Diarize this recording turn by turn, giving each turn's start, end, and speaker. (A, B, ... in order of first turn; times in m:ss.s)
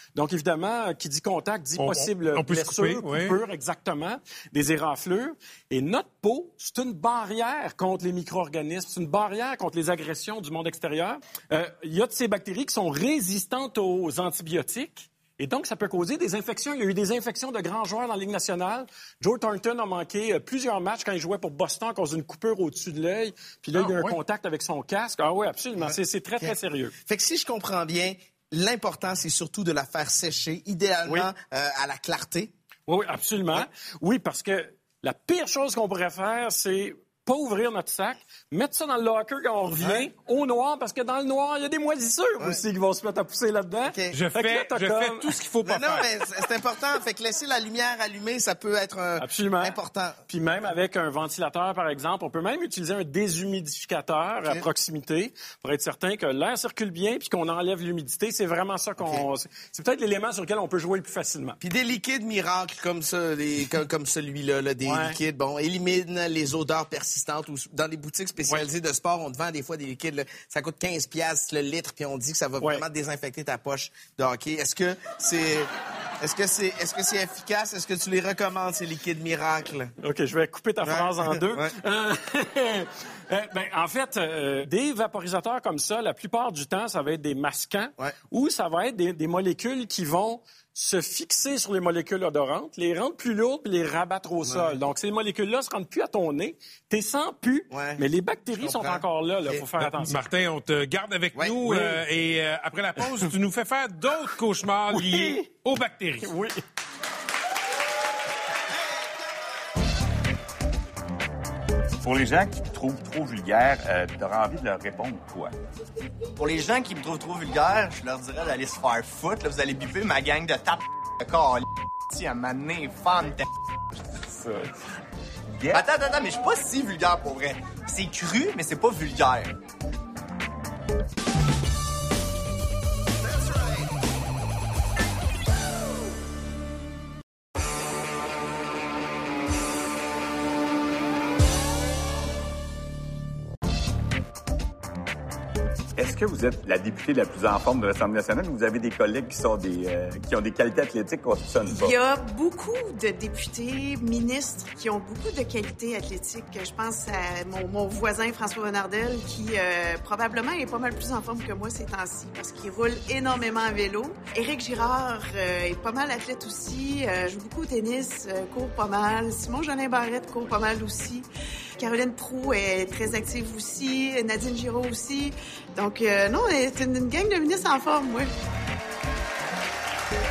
0:00.1-0:26.9 A
0:01.8-0:03.4 B
0:23.8-0:24.2 B
0:25.8-0:32.5 C
0:31.0-0:31.3 A
0:32.9-0:45.4 A
0:39.8-0:40.1 C
0:43.9-0:44.2 C
0:44.1-0:46.1 B
0:45.6-0:50.2 C
0:49.2-0:49.8 A
0:50.3-1:01.6 A
0:59.0-0:59.2 C
1:01.6-1:19.9 C
1:04.8-1:05.2 A
1:20.0-1:40.2 A
1:20.8-1:21.7 C
1:34.4-1:34.8 C
1:37.7-1:39.6 C
1:39.8-1:46.3 B
1:41.4-1:41.8 C
1:43.0-1:43.3 A
1:44.9-1:45.5 A
1:46.2-1:46.6 A
1:48.7-1:49.4 C
1:52.0-1:55.5 D
1:56.4-2:03.5 E
2:04.3-2:04.7 D
2:05.5-2:05.8 C
2:05.7-2:09.5 E
2:13.4-2:13.8 C
2:26.0-2:31.9 D
2:31.7-2:51.3 F
2:51.8-2:58.3 F